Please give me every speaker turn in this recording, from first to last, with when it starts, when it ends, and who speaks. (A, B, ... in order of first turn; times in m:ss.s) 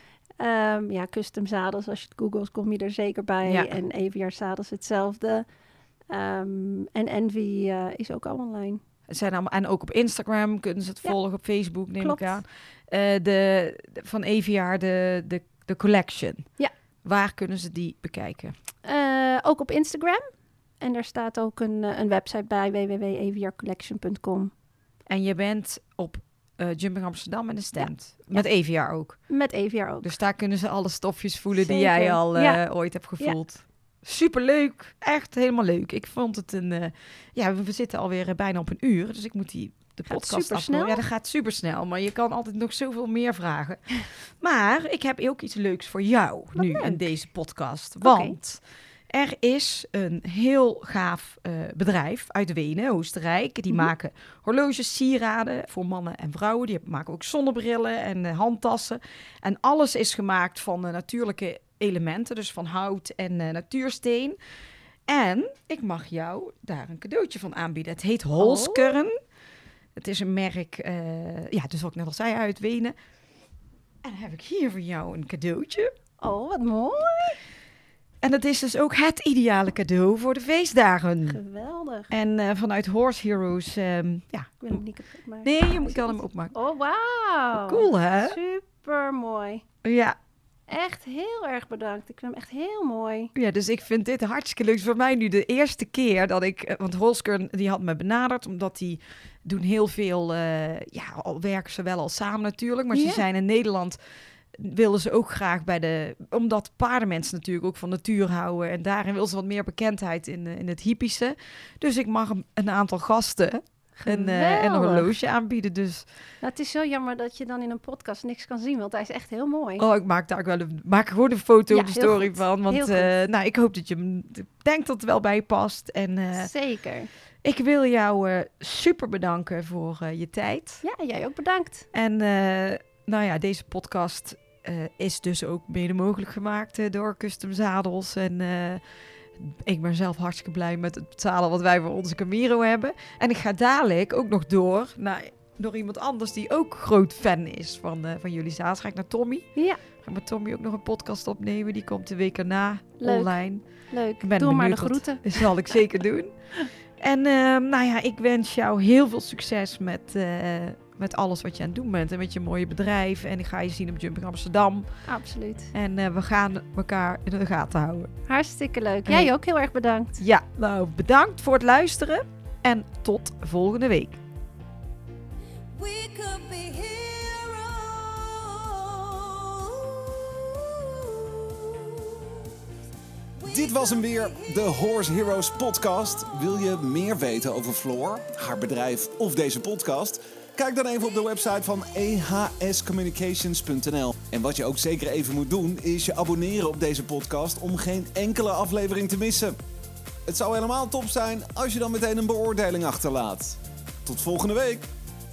0:00.4-0:05.4 A
0:03.4-0:03.7 B
0:06.1-0:08.8 A
0:09.1-0:16.5 B
0:12.0-0:12.4 A
0:17.0-0:18.5 B
0:18.8-0:20.2 A
0:20.8-0:24.5 A
0:25.1-0:29.2 B
0:27.8-0:28.4 A
0:29.3-0:30.1 A
0:30.0-1:04.4 B
0:31.5-0:32.6 A
0:40.1-0:41.0 A
0:46.5-0:47.1 A
0:48.0-0:48.4 A
1:05.1-1:09.1 B
1:08.4-1:09.0 A
1:10.0-1:12.9 B
1:14.0-1:15.9 B
1:16.2-1:17.4 A
1:18.2-1:21.4 B
1:21.3-1:22.1 A
1:22.1-1:24.8 B
1:24.6-1:29.6 A
1:25.4-1:26.5 B
1:27.5-1:28.4 B
1:29.8-1:30.2 B
1:30.7-1:33.3 A
1:33.3-1:44.0 B
1:42.9-1:43.2 A
1:44.5-1:56.0 B
1:54.0-1:55.1 A
1:56.4-1:59.8 A
1:59.8-2:06.5 B
2:01.7-2:03.1 A
2:06.4-2:07.1 A
2:07.4-2:10.8 B
2:10.8-2:11.9 A
2:11.9-2:18.8 B
2:19.4-2:33.6 B
2:33.0-2:35.7 A
2:34.2-2:36.3 B
2:37.0-2:44.9 B
2:45.0-2:45.7 A
2:45.7-2:48.1 B
2:48.3-2:50.2 A
2:50.2-2:54.2 B
2:55.7-3:02.5 C
3:03.4-3:05.4 C
3:03.4-3:19.6 D
3:06.2-3:06.6 C
3:20.2-3:24.8 D